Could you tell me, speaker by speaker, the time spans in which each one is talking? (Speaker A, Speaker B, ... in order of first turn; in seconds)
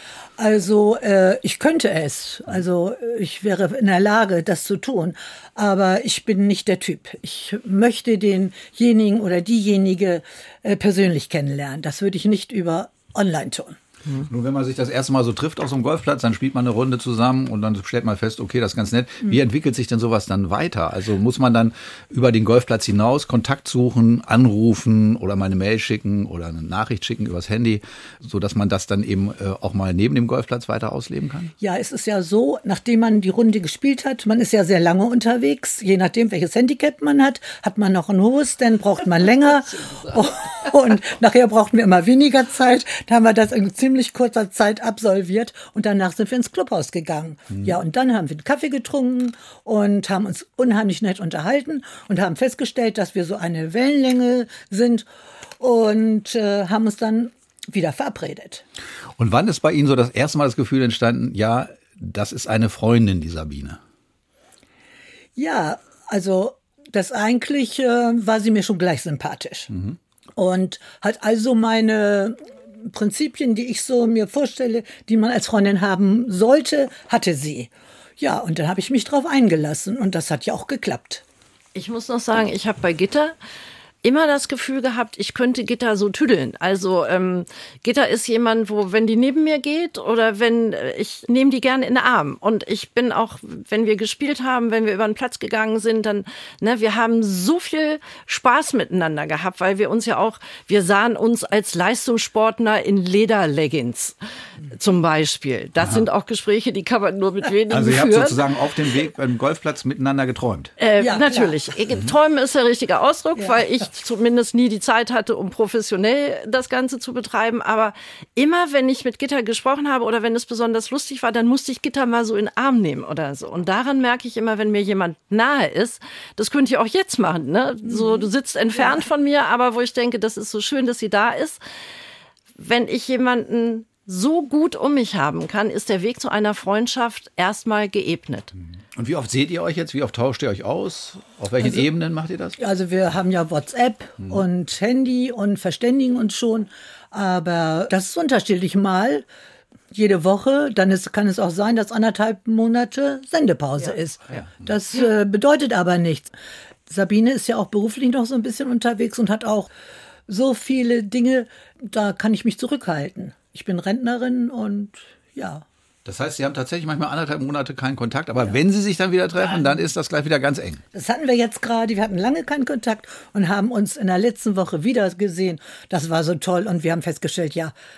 Speaker A: 0.4-13.8, 31.6-55.1, 55.6-58.6, 65.4-69.7, 70.4-81.2, 111.0-111.6, 113.4-113.6, 128.0-128.3, 142.6-149.3, 149.9-156.3, 156.9-159.7, 160.3-165.7, 170.9-177.7
Speaker B: 14.3-31.5, 59.2-63.8, 69.7-70.0, 107.7-110.7, 139.0-142.6, 166.1-170.8
Speaker C: 81.8-83.3, 84.0-104.2, 104.7-108.4, 110.8-131.6, 132.6-138.5